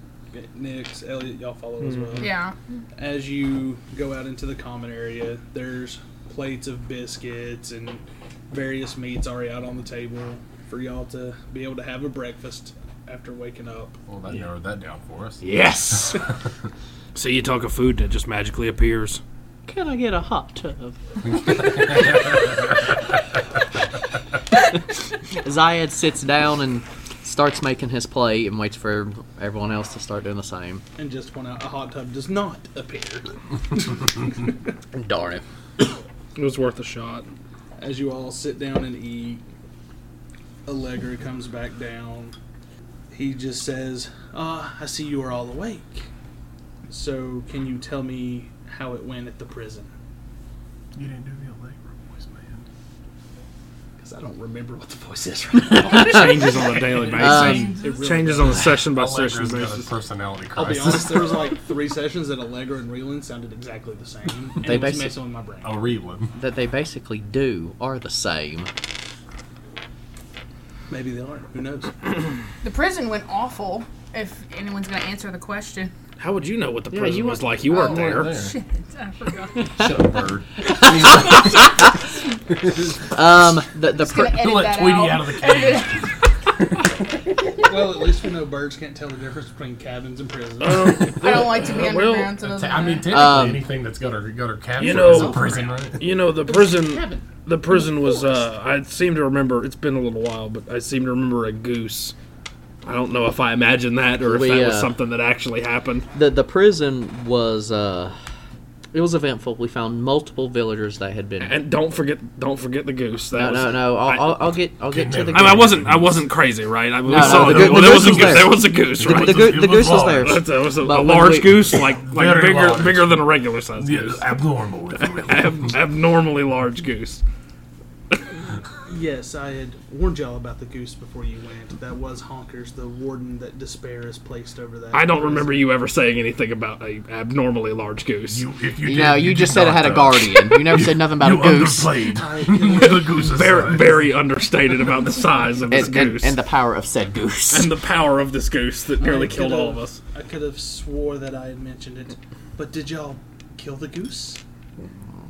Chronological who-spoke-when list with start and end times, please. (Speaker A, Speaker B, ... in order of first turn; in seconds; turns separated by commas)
Speaker A: 0.3-2.4, Speaker B: 1.8-2.3, Speaker C: 2.2-2.5, Speaker A: 3.0-14.4, Speaker D: 14.1-16.2, Speaker E: 15.4-16.2, Speaker B: 17.1-19.2, Speaker E: 19.7-21.0, Speaker D: 21.2-22.8, Speaker E: 21.5-22.1, Speaker E: 25.4-30.8, Speaker A: 31.0-34.6, Speaker E: 34.9-35.4, Speaker B: 36.4-37.3, Speaker A: 37.8-39.4, Speaker A: 40.7-42.4, Speaker A: 43.1-46.1, Speaker A: 46.9-49.9, Speaker D: 51.0-52.7, Speaker A: 54.0-58.8, Speaker E: 55.5-56.5, Speaker B: 55.8-59.9, Speaker D: 56.6-61.5, Speaker E: 57.1-57.8, Speaker A: 60.5-65.9, Speaker E: 64.6-65.2, Speaker D: 65.6-66.3, Speaker E: 66.3-68.7, Speaker A: 70.9-71.9, Speaker C: 72.6-75.9, Speaker B: 76.2-78.4, Speaker E: 76.9-77.6, Speaker C: 77.7-79.8, Speaker D: 77.7-78.5, Speaker D: 79.7-82.0, Speaker E: 80.6-82.0, Speaker D: 82.5-83.0, Speaker E: 83.1-84.4, Speaker C: 84.0-86.1, Speaker D: 84.3-86.9, Speaker A: 87.6-90.9, Speaker B: 90.6-92.3, Speaker D: 90.7-91.8, Speaker C: 91.2-93.3, Speaker D: 92.3-96.1, Speaker E: 93.1-93.6, Speaker B: 94.8-102.1, Speaker A: 94.8-98.5, Speaker B: 102.8-106.1, Speaker E: 104.2-104.9, Speaker E: 106.1-108.2, Speaker E: 108.9-111.6, Speaker B: 111.4-114.6, Speaker E: 113.3-115.8, Speaker D: 114.9-116.2, Speaker B: 115.3-124.3, Speaker E: 117.1-121.7, Speaker D: 117.1-120.4, Speaker D: 121.8-125.7, Speaker B: 125.0-127.2, Speaker A: 128.8-135.6, Speaker B: 134.9-138.4, Speaker D: 138.3-144.0, Speaker E: 138.8-141.9, Speaker A: 142.2-143.7, Speaker B: 143.3-146.4, Speaker E: 145.7-147.7, Speaker B: 147.5-150.0, Speaker A: 149.0-154.4